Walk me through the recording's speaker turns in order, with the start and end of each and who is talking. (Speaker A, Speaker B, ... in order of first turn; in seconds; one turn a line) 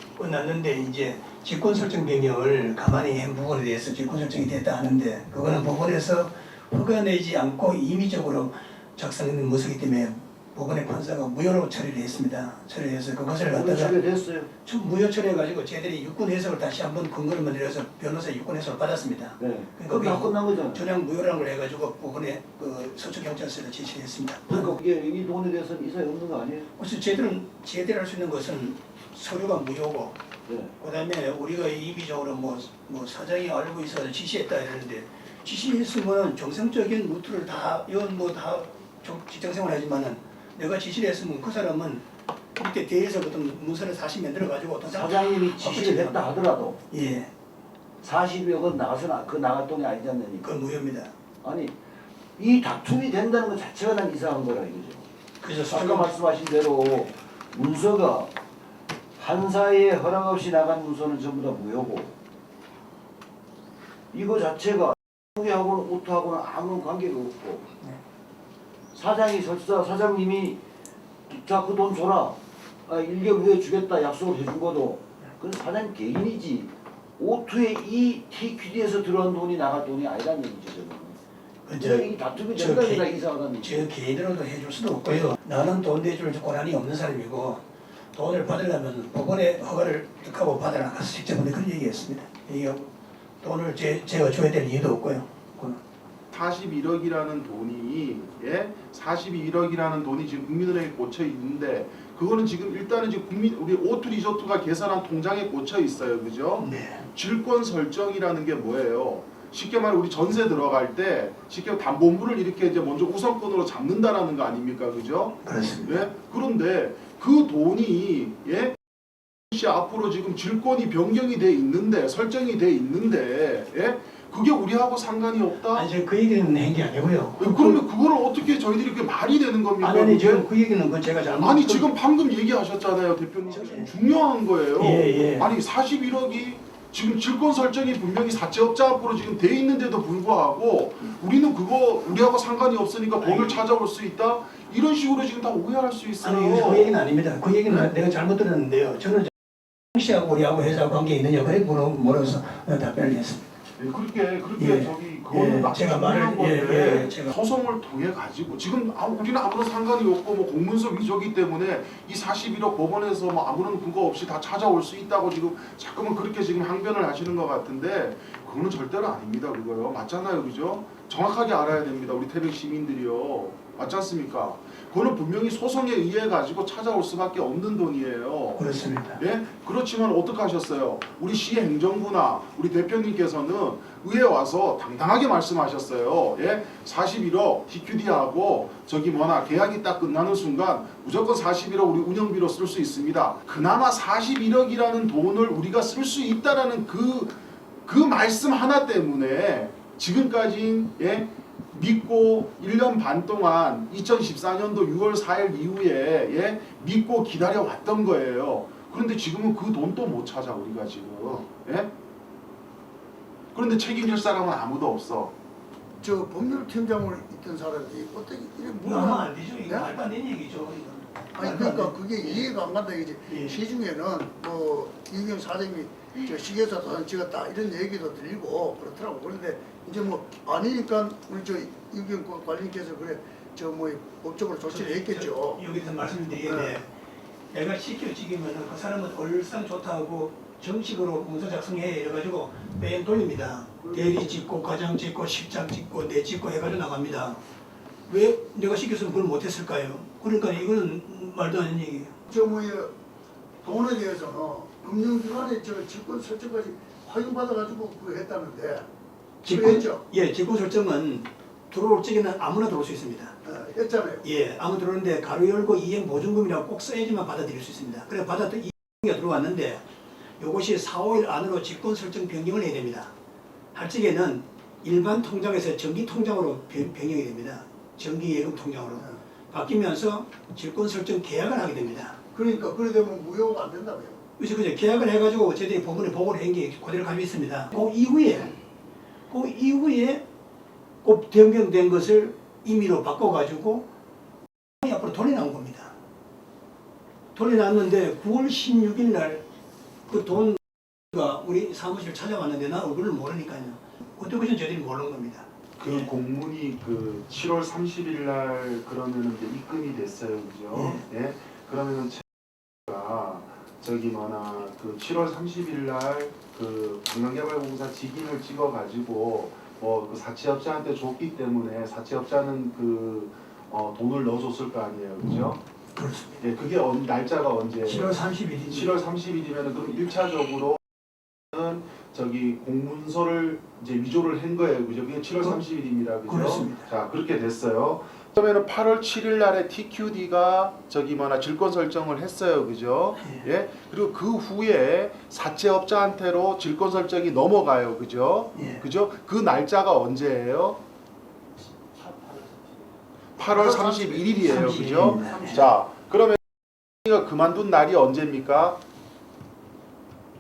Speaker A: 0.2-14.0
Speaker B: 13.5-14.5
Speaker A: 14.6-24.8
Speaker B: 19.4-20.9
Speaker B: 24.5-26.7
Speaker A: 26.8-30.2
Speaker B: 30.5-30.7
Speaker A: 30.8-46.4
Speaker B: 44.8-46.8
Speaker A: 46.9-47.3
Speaker B: 48.0-50.5
Speaker A: 50.4-51.1
Speaker B: 51.4-51.7
Speaker B: 52.4-55.0
Speaker A: 55.4-56.2
Speaker B: 55.7-58.3
Speaker B: 59.2-62.1
Speaker B: 64.1-67.7
Speaker B: 68.9-70.6
Speaker B: 71.3-81.2
Speaker A: 81.7-83.1
Speaker B: 81.8-83.9
Speaker A: 83.6-95.8
Speaker C: 96.3-118.8
Speaker A: 106.6-107.0
Speaker A: 115.4-116.1
Speaker C: 119.5-125.9
Speaker A: 125.7-127.8
Speaker C: 127.4-130.5
Speaker A: 129.8-131.9
Speaker C: 131.4-147.0
Speaker A: 133.5-133.9
Speaker A: 134.8-135.5
Speaker A: 143.2-143.6
Speaker A: 146.2-149.3
Speaker A: 149.9-153.5
Speaker C: 153.8-211.9
Speaker A: 154.6-157.3
Speaker A: 178.6-179.2
Speaker C: 213.5-215.3
Speaker D: 216.0-219.9
Speaker A: 218.8-222.4
Speaker D: 221.4-235.6
Speaker A: 223.2-223.6
Speaker A: 234.7-236.9
Speaker D: 236.4-236.8
Speaker A: 237.5-247.4
Speaker D: 243.8-244.5
Speaker A: 248.1-252.1
Speaker D: 252.3-252.9
Speaker D: 253.6-258.9
Speaker A: 259.4-263.4
Speaker D: 259.4-260.0
Speaker D: 263.4-264.2
Speaker A: 264.2-269.8
Speaker A: 270.4-273.1
Speaker A: 273.7-282.2
Speaker D: 282.3-284.2
Speaker A: 284.4-288.6
Speaker A: 289.3-290.2
Speaker A: 291.0-293.9
Speaker A: 294.8-295.9
Speaker A: 297.3-299.4
Speaker A: 300.1-306.1
Speaker C: 305.8-312.3
Speaker A: 310.7-311.0
Speaker C: 312.9-325.6
Speaker A: 325.9-326.4
Speaker C: 326.4-328.1
Speaker A: 327.8-328.9
Speaker C: 328.7-330.8
Speaker C: 331.5-350.8
Speaker A: 336.2-336.9
Speaker A: 343.2-343.4
Speaker A: 348.5-348.8
Speaker C: 353.4-356.4
Speaker D: 353.4-354.5
Speaker A: 354.4-355.6
Speaker D: 355.2-355.6
Speaker C: 357.0-358.8